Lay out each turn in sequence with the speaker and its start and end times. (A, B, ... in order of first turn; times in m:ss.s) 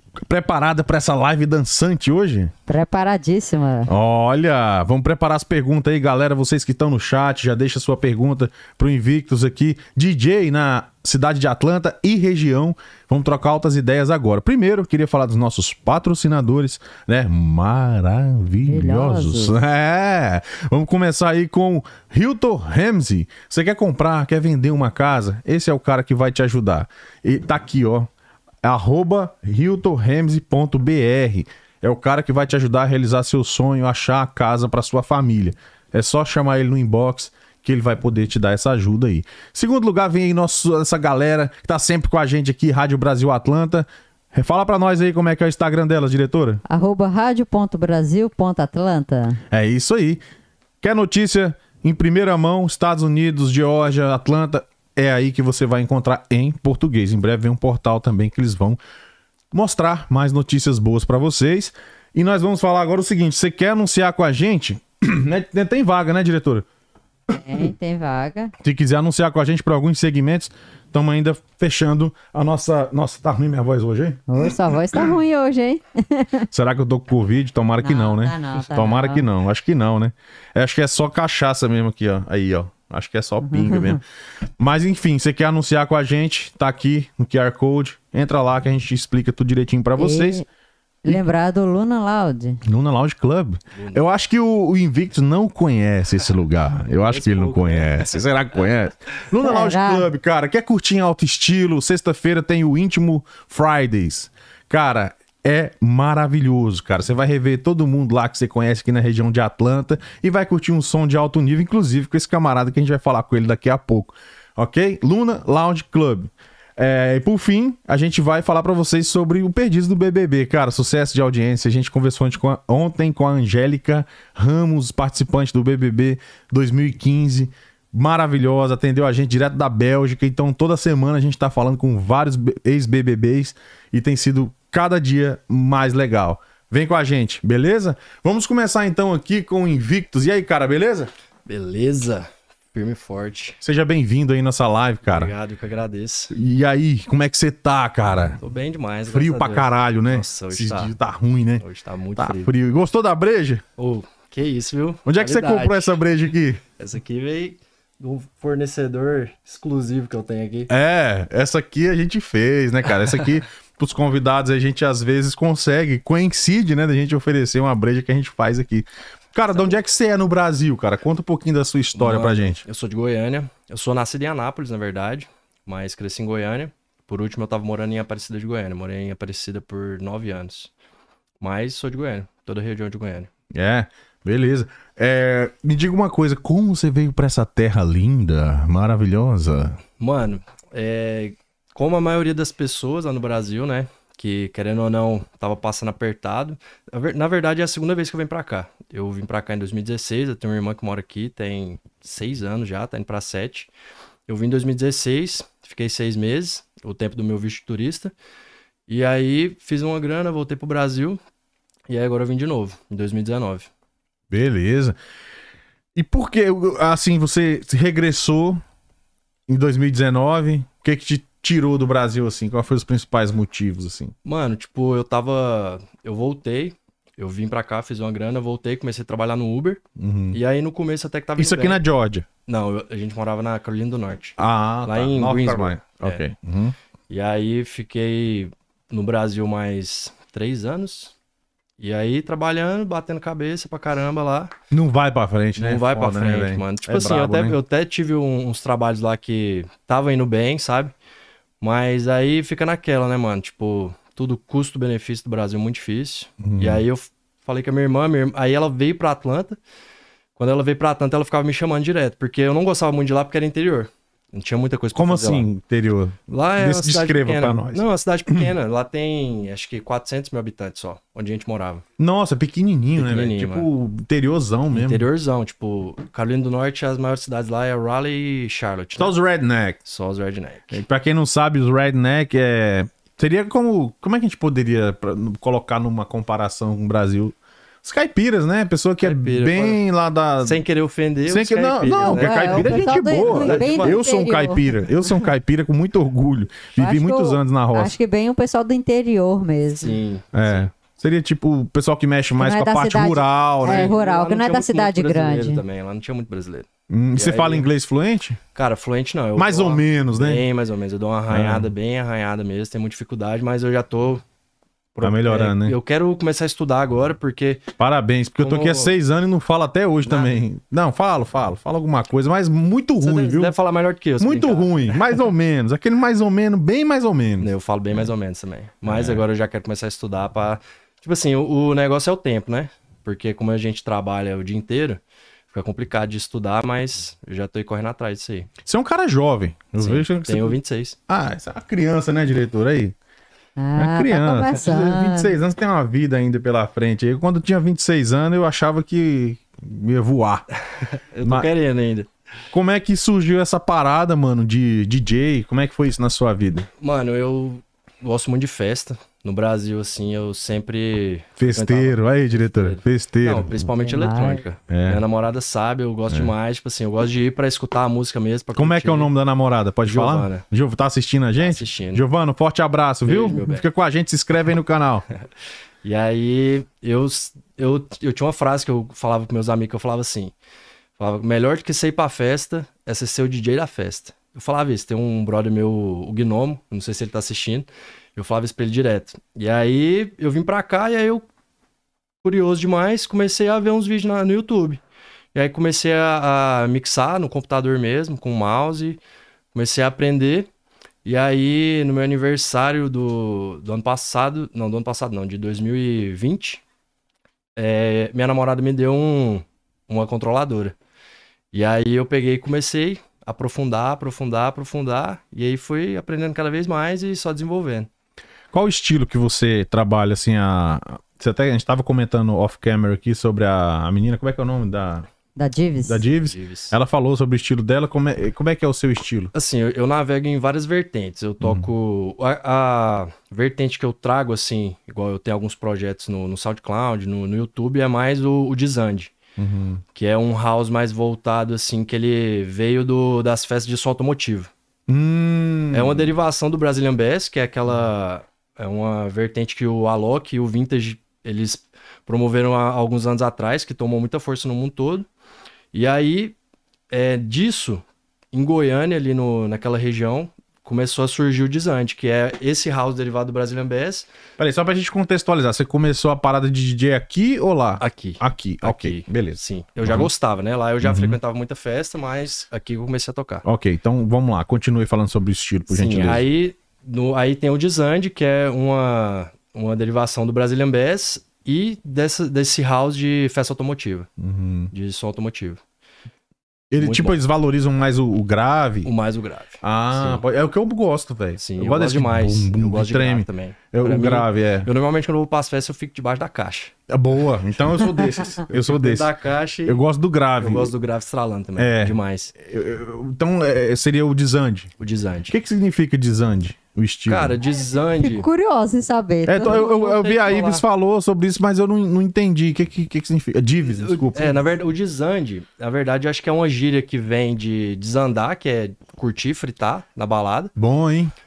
0:00.2-0:02.5 A
0:02.7-0:03.9 B
0:03.9-0:28.1 A
0:18.6-0:19.5 B
0:28.6-0:46.6 A
0:46.7-0:49.4 B
0:49.5-0:50.2 A
0:50.8-0:58.8 A
0:59.5-1:06.6 A
1:07.3-1:08.5 B
1:08.6-1:15.0 A
1:14.3-1:16.5 B
1:16.5-1:24.0 A
1:17.8-1:19.2 B
1:23.4-1:24.0 B
1:24.6-1:30.4 A
1:30.0-1:30.4 B
1:31.0-1:32.6 B
1:32.6-2:21.1 A
1:33.7-1:34.1 C
1:36.9-1:38.2 C
1:39.4-1:40.0 B
2:21.5-2:23.6 C
2:23.6-2:25.3 A
2:25.0-2:26.3 C
2:26.3-2:28.4 A
2:28.4-2:30.9 C
2:29.0-2:31.6 A
2:31.6-2:32.5 C
2:32.2-2:33.6 A
2:33.8-2:36.0 C
2:35.0-2:36.6 A
2:36.8-2:40.7 C
2:40.7-2:52.6 A
2:51.9-3:00.7 C
3:01.4-3:03.3 C
3:03.5-3:09.8 A
3:10.0-3:23.7 C
3:24.3-3:28.1 C
3:28.9-3:31.2 C
3:31.9-3:33.7 C
3:34.3-3:35.0 A
3:35.9-3:38.6 A
3:39.5-3:44.1 A
3:44.2-3:49.8 C
3:50.0-3:50.4 A
3:50.3-3:51.8 C
3:51.4-3:52.3 A
3:52.4-3:56.2 C
3:54.4-3:56.7 A
3:57.1-4:01.1 C
4:01.8-4:04.6 C
4:04.7-4:07.6 A
4:05.6-4:10.9 C
4:11.6-4:19.6 C
4:16.4-4:16.8 A
4:20.4-4:25.5 C
4:24.9-4:28.5 A
4:26.3-4:31.8 C
4:32.0-4:35.0 A
4:33.0-4:33.7 C
4:34.7-4:39.1 C
4:39.0-4:39.8 A
4:39.8-4:40.8 C
4:40.7-4:50.6 A
4:49.0-4:49.8 C
4:50.4-4:54.0 C
4:51.3-4:58.0 A
4:52.0-4:54.6 B
4:56.8-5:00.0 B
4:59.8-5:00.7 C
5:00.3-5:03.9 A
5:02.4-5:05.6 B
5:03.6-5:07.7 C
5:06.9-5:08.4 A
5:08.5-5:14.2 C
5:09.3-5:10.5 A
5:11.3-5:11.7 A
5:14.9-5:17.6 C
5:15.0-5:15.8 A
5:17.8-5:23.5 A
5:18.4-5:18.9 C
5:20.0-5:20.4 C
5:23.0-5:25.2 C
5:24.2-5:28.1 A
5:27.4-5:35.0 C
5:28.8-5:29.2 A
5:35.5-5:38.5 C
5:38.6-5:40.6 A
5:39.8-5:41.0 C
5:41.1-5:42.9 A
5:43.6-5:45.3 B
5:43.8-5:50.4 A
5:50.6-5:52.1 C
5:51.2-5:51.5 A
5:52.5-5:56.7 A
5:56.8-6:09.1 C
6:01.4-6:03.5 A
6:03.8-6:04.4 B
6:04.7-6:05.0 A
6:08.5-6:15.0 A
6:09.8-6:10.4 C
6:11.4-6:12.0 C
6:13.0-6:13.6 C
6:15.8-6:20.3 C
6:21.0-6:31.2 C
6:32.2-6:34.8 C
6:35.3-6:39.0 C
6:39.5-6:40.5 C
6:41.0-6:46.6 C
6:47.6-6:50.8 C
6:51.5-6:57.9 C
6:58.5-7:05.1 A
7:05.4-7:06.0 B
7:05.9-7:09.3 A
7:06.2-7:06.7 C
7:09.3-7:19.1 C
7:11.4-7:11.7 A
7:19.4-7:19.8 A
7:19.9-7:24.5 C
7:24.9-7:26.1 A
7:25.7-7:35.1 C
7:35.7-7:36.3 C
7:36.9-7:44.1 C
7:44.4-7:50.1 A
7:47.8-7:53.4 C
7:50.8-7:51.2 A
7:53.4-7:56.2 A
7:55.7-8:04.1 C
8:04.2-8:04.7 A
8:04.7-8:05.6 C
8:06.7-8:08.9 A
8:06.7-8:07.2 C
8:08.8-8:10.2 C
8:09.6-8:14.7 A
8:11.4-8:16.7 C
8:16.9-8:19.1 A
8:18.5-8:19.8 C
8:19.6-8:20.7 A
8:20.4-8:22.3 C
8:21.6-8:24.7 A
8:24.8-8:25.3 C
8:25.3-8:27.4 A
8:27.1-8:28.3 C
8:28.0-8:29.7 B
8:29.2-8:34.4 A
8:29.4-8:30.6 C
8:33.6-8:40.5 C
8:40.6-8:41.1 A